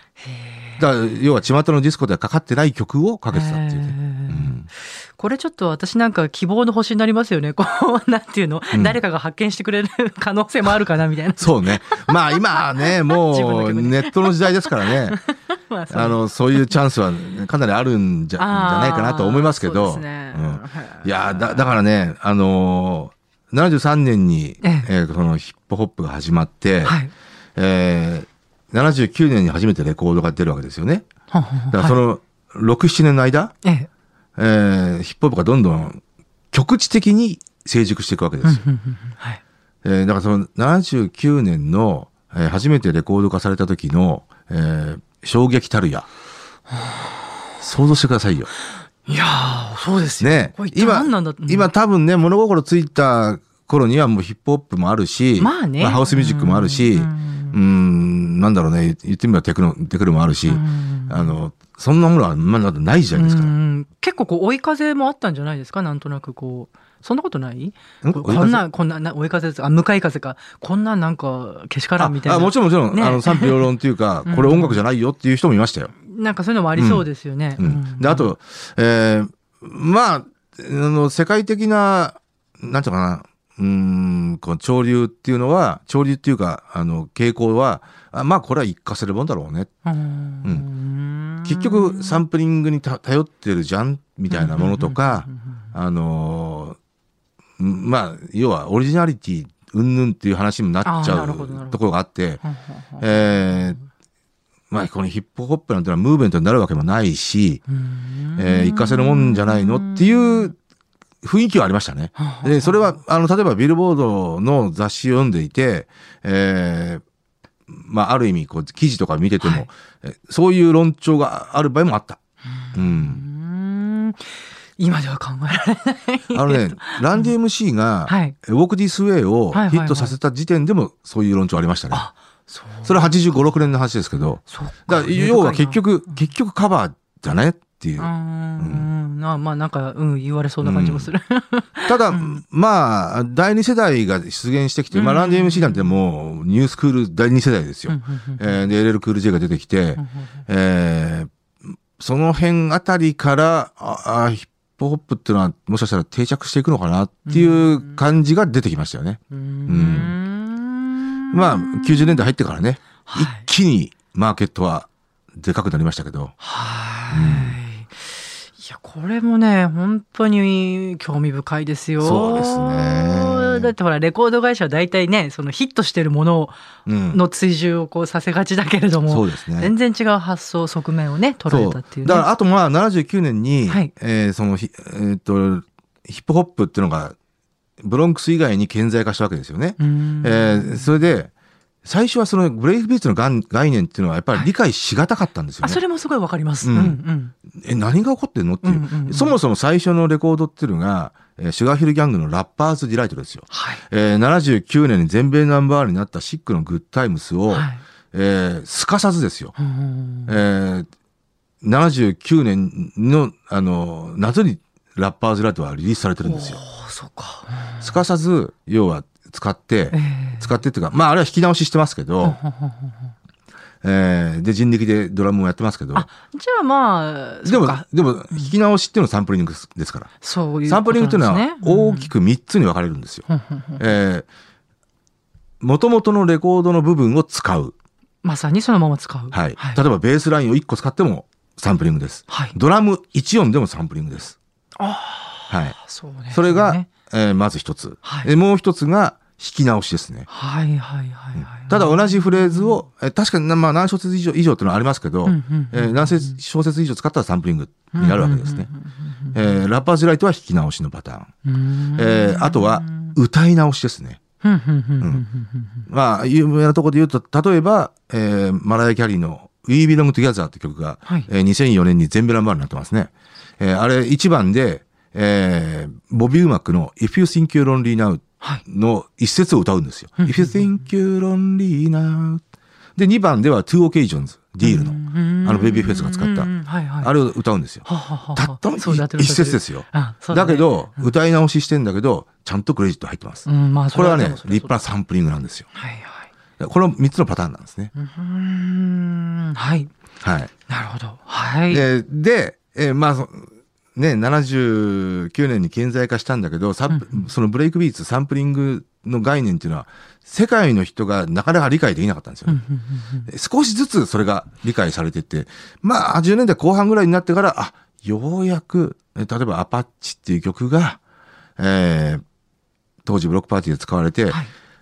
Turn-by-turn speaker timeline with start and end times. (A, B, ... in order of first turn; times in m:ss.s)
0:00.2-0:00.9 A
0:00.8-0:04.7 B
0:03.3-0:16.7 A
0:08.7-0:09.0 B
0:11.4-0:15.2 B
0:15.9-0:27.0 B
0:18.4-0:21.6 A
0:24.6-0:24.9 A
0:26.8-0:27.1 A
0:27.6-0:31.0 B
0:31.3-0:32.0 A
0:31.7-0:33.5 B
0:33.6-0:33.9 A
0:34.4-0:36.0 B
0:36.5-0:38.6 B
0:38.4-0:39.4 A
0:39.8-0:46.1 B
0:46.7-0:47.5 A
0:47.6-0:48.5 B
0:49.0-0:51.7 A
0:50.2-1:03.5 B
0:55.4-0:57.6 A
1:00.5-1:01.4 A
1:03.1-1:13.7 A
1:08.0-1:08.6 B
1:12.0-1:15.9 B
1:14.2-1:14.8 A
1:16.0-1:18.3 A
1:16.8-1:17.0 B
1:17.6-1:29.7 B
1:29.8-1:32.2 A
1:31.4-1:36.8 B
1:34.3-1:35.6 A
1:37.6-1:42.4 B
1:40.8-1:41.8 A
1:42.4-1:43.8 A
1:43.0-1:43.8 B
1:44.7-1:47.6 B
1:47.7-1:50.5 A
1:48.4-1:50.6 B
1:51.2-1:57.0 B
1:52.2-1:53.0 A
1:57.7-2:02.2 B
1:59.4-1:59.7 A
2:02.4-2:07.3 A
2:02.7-2:03.2 B
2:06.3-2:12.0 B
2:08.1-2:08.3 A
2:09.5-2:10.2 A
2:11.9-2:13.1 A
2:12.8-2:18.9 B
2:14.5-2:16.2 A
2:18.0-2:22.4 A
2:20.6-2:21.1 B
2:21.9-2:31.3 B
2:24.9-2:26.0 A
2:27.9-2:28.7 A
2:30.0-2:30.3 A
2:32.0-2:40.1 B
2:37.2-2:38.0 A
2:39.3-2:42.3 A
2:41.3-2:46.3 B
2:43.1-2:43.4 A
2:46.4-2:56.5 A
2:47.1-2:47.6 B
2:52.0-2:53.7 B
2:56.8-2:57.2 B
2:57.1-3:02.2 A
2:59.1-2:59.7 B
3:01.5-3:07.1 B
3:07.8-3:11.3 B
3:09.8-3:10.9 A
3:11.8-3:15.8 B
3:15.6-3:17.3 A
3:16.6-3:17.0 B
3:17.5-3:29.5 B
3:18.6-3:19.3 A
3:23.5-3:23.8 A
3:27.5-3:27.8 A
3:29.6-3:30.4 A
3:30.3-3:30.9 B
3:31.6-3:36.6 B
3:36.2-3:38.0 A
3:37.8-3:42.4 B
3:39.9-3:40.5 A
3:42.2-3:43.1 A
3:43.8-3:46.1 B
3:45.9-3:48.5 A
3:47.4-3:50.1 B
3:50.2-3:52.1 A
3:50.6-3:53.2 B
3:53.3-3:53.8 A
3:53.8-3:54.2 B
3:55.6-3:57.7 B
3:58.2-3:59.8 A
3:59.3-4:04.4 B
4:02.3-4:02.6 A
4:04.8-4:06.9 A
4:05.5-4:05.8 B
4:06.3-4:10.3 B
4:08.0-4:08.3 A
4:10.3-4:12.8 A
4:11.4-4:18.7 B
4:15.2-4:16.4 A
4:17.9-4:19.6 A
4:19.3-4:21.3 B
4:21.4-4:23.2 A
4:22.0-4:24.2 B
4:24.4-4:25.8 A
4:25.9-4:42.4 B
4:40.2-4:40.7 A
4:43.0-4:55.7 B
4:44.6-4:47.1 A
4:47.8-4:51.1 A
4:53.4-4:54.8 A
4:55.7-4:56.3 A
4:56.6-4:57.9 B
4:57.9-4:59.9 A
5:00.2-5:00.5 B
5:00.7-5:01.8 A
5:01.7-5:12.6 B
5:06.9-5:07.3 A
5:12.5-5:13.3 A
5:13.3-5:21.0 B
5:21.6-5:22.2 B
5:23.0-5:24.4 B